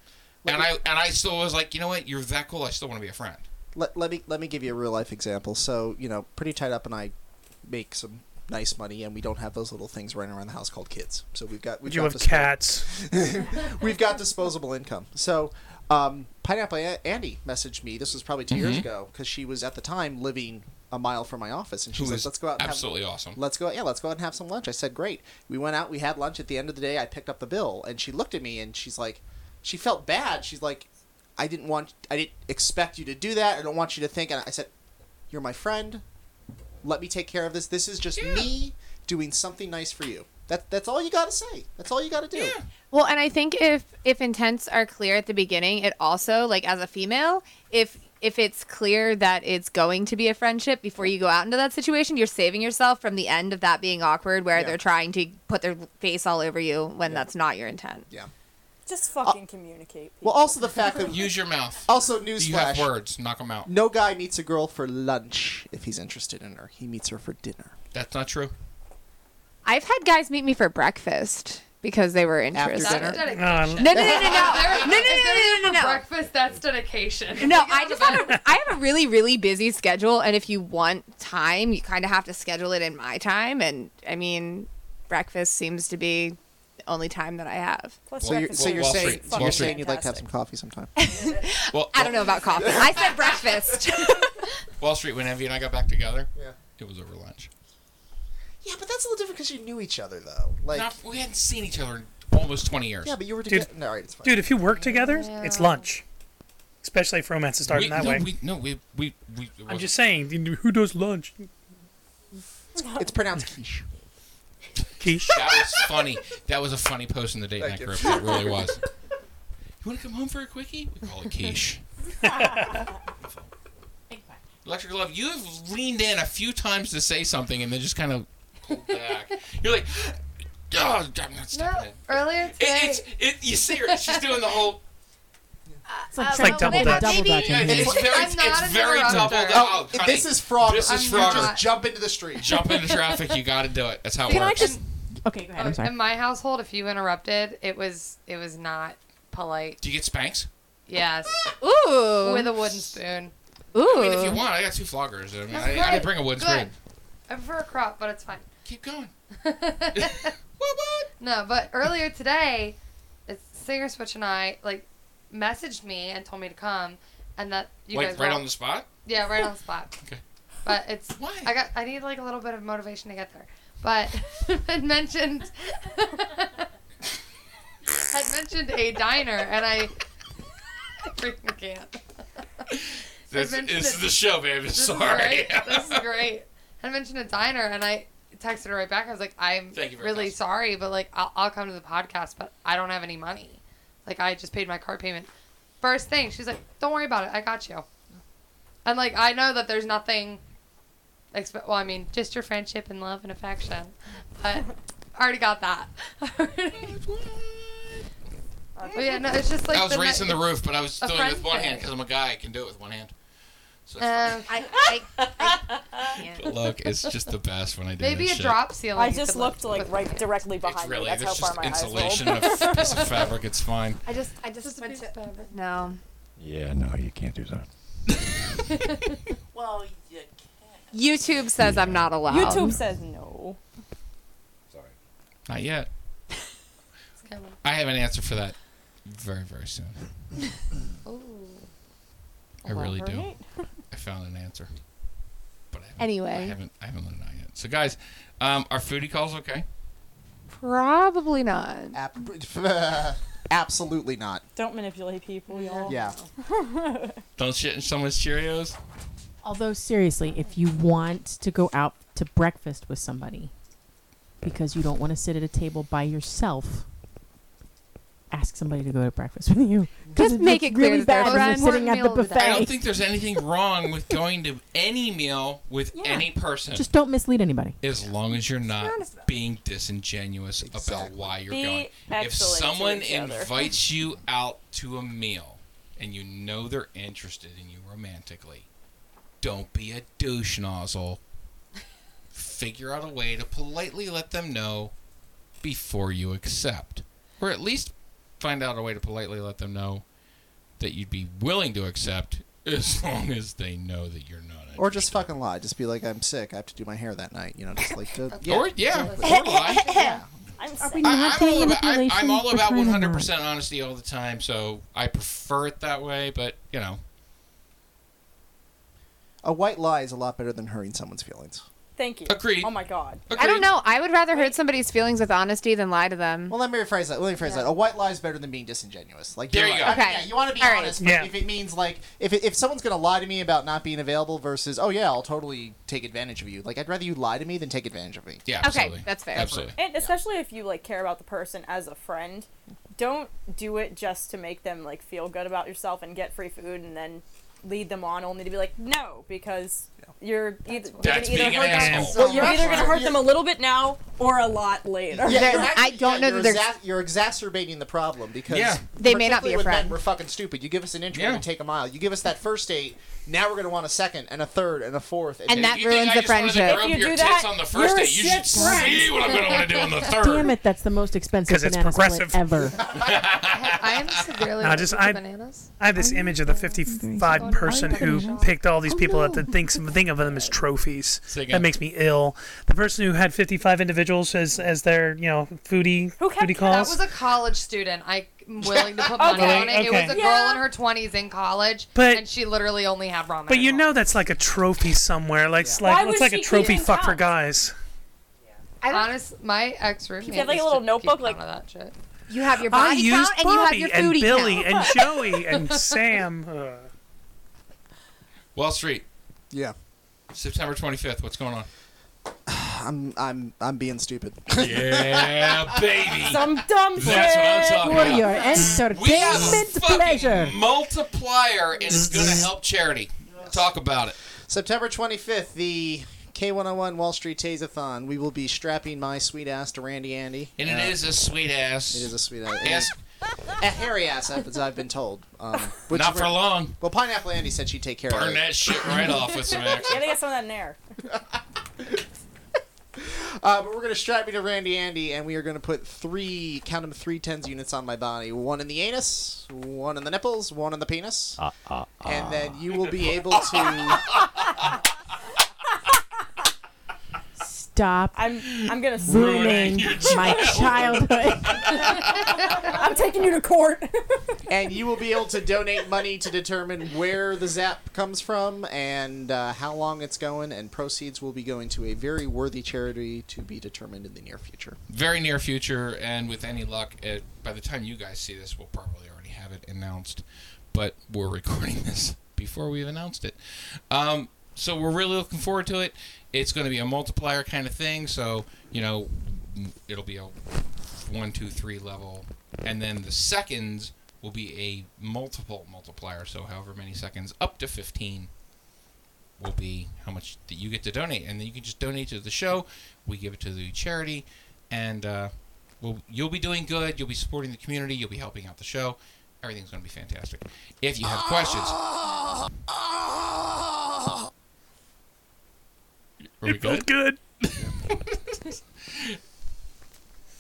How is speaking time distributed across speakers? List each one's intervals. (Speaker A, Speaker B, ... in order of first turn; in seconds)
Speaker A: 0.4-0.7, 3.7-34.7, 35.3-36.0, 36.8-42.6, 60.2-62.9, 63.6-67.7, 72.5-73.2, 73.9-75.0, 88.2-90.9, 92.5-93.8, 98.6-100.9, 103.0-104.4, 112.9-113.9, 117.6-118.7, 137.7-138.5, 139.5-142.5, 251.9-254.4, 255.9-256.2, 280.6-281.4, 304.8-310.3, 319.4-321.6, 326.5-338.5, 339.4-340.1, 352.1-353.3, 355.2-365.9, 388.6-389.1, 395.6-395.9, 412.5-416.2, 424.4-431.0, 431.9-432.9, 433.6-439.3, 441.1-442.0, 442.9-451.4, 452.0-454.1, 464.5-474.8, 511.1-514.1
Speaker B: 0.5-3.4, 18.5-18.9, 22.0-23.4, 38.2-38.5, 42.3-42.7, 61.0-63.7, 67.9-68.5, 88.2-89.8, 91.7-92.7, 94.8-97.5, 100.7-103.2, 107.7-109.9, 115.2-118.8, 119.8-121.8, 123.2-123.5, 124.7-134.8, 137.2-141.6, 142.4-144.8, 149.8-150.5, 153.8-156.7, 158.7-159.1, 159.9-161.1, 167.9-168.9, 171.2-171.5, 182.7-186.1, 189.7-190.4, 209.7-213.1, 213.9-214.5, 216.2-218.6, 220.6-224.0, 235.5-235.9, 237.6-240.1, 242.7-243.4, 243.9-244.7, 245.7-249.7, 257.4-258.8, 272.4-276.9, 277.8-288.7, 289.4-291.2, 292.3-294.9, 295.6-300.1, 300.8-305.3, 308.4-309.8, 311.0-317.0, 322.3-322.7, 323.3-323.7, 329.5-330.1, 338.5-339.8, 351.0-352.9, 358.5-358.8, 361.1-361.4, 365.6-370.5, 372.9-374.1, 381.3-381.7, 408.6-409.1, 410.3-411.7, 414.6-424.2, 430.6-432.9, 435.9-436.8, 438.1-440.0, 458.4-462.6, 474.9-498.3, 499.4-511.8, 516.4-516.9, 517.5-519.2
Speaker C: 11.8-12.9, 73.3-74.0, 104.2-106.0, 106.8-108.3, 109.7-111.5, 115.0-115.5, 122.4-122.8, 136.3-137.2, 139.1-139.3, 331.0-331.3, 351.7-352.4, 371.5-372.7, 374.6-375.2, 375.8-387.0, 389.2-390.2, 391.9-392.3, 393.5-397.8, 402.6-406.9, 421.9-422.5, 516.5-517.2
Speaker D: 42.9-58.1, 69.7-76.0, 77.4-88.0, 91.0-94.6, 135.9-137.6, 151.6-152.5, 153.7-154.4, 214.5-216.5, 224.1-226.0, 230.9-232.8, 246.0-246.6, 250.5-252.0, 270.1-272.5, 278.6-279.3, 309.2-310.2, 323.4-326.6, 329.8-331.0, 338.6-339.6, 355.2-356.7, 359.0-360.0, 365.5-366.9, 398.8-399.2, 402.3-405.0
Speaker E: 58.9-60.7, 88.1-90.3, 91.1-91.4, 208.8-209.2, 218.9-223.1, 232.3-233.6, 242.6-243.7, 254.6-257.2, 275.9-276.3, 281.5-283.5, 310.6-311.5, 322.0-323.2, 339.8-355.7, 366.6-369.2, 386.2-387.0, 389.2-390.6, 395.8-397.3, 400.2-401.4, 416.2-418.4, 439.9-440.8, 458.1-459.6, 460.4-460.7, 461.6-464.4
Speaker F: 72.8-78.4, 104.7-105.9, 131.5-133.1, 133.7-134.7, 137.9-139.8, 140.8-141.8, 142.5-143.4, 144.3-144.8, 145.6-149.8, 150.9-151.5, 152.2-153.3, 155.5-156.7, 157.3-158.5, 159.4-160.3, 161.2-168.5, 169.0-170.0, 170.7-176.7, 178.0-179.9, 181.0-182.0, 183.3-195.3, 195.8-197.9, 198.8-200.4, 201.3-207.2, 208.9-211.9, 214.0-214.8, 218.0-220.4, 224.6-225.6, 228.7-229.2, 237.2-237.6, 241.1-241.7, 255.5-256.2, 271.2-272.0, 308.3-309.4, 327.4-327.7, 350.7-352.9, 369.3-369.9, 373.0-375.7, 377.2-378.6, 386.6-393.9, 398.9-402.0
Speaker G: 124.1-124.4, 136.1-138.1, 144.3-146.0, 259.4-263.5, 264.4-266.9, 268.3-272.8, 276.7-277.8, 310.8-313.3, 368.3-372.8, 375.9-380.6, 417.7-420.6, 457.4-458.2, 459.0-462.1
Speaker H: 226.4-227.7, 231.6-232.8, 451.4-452.6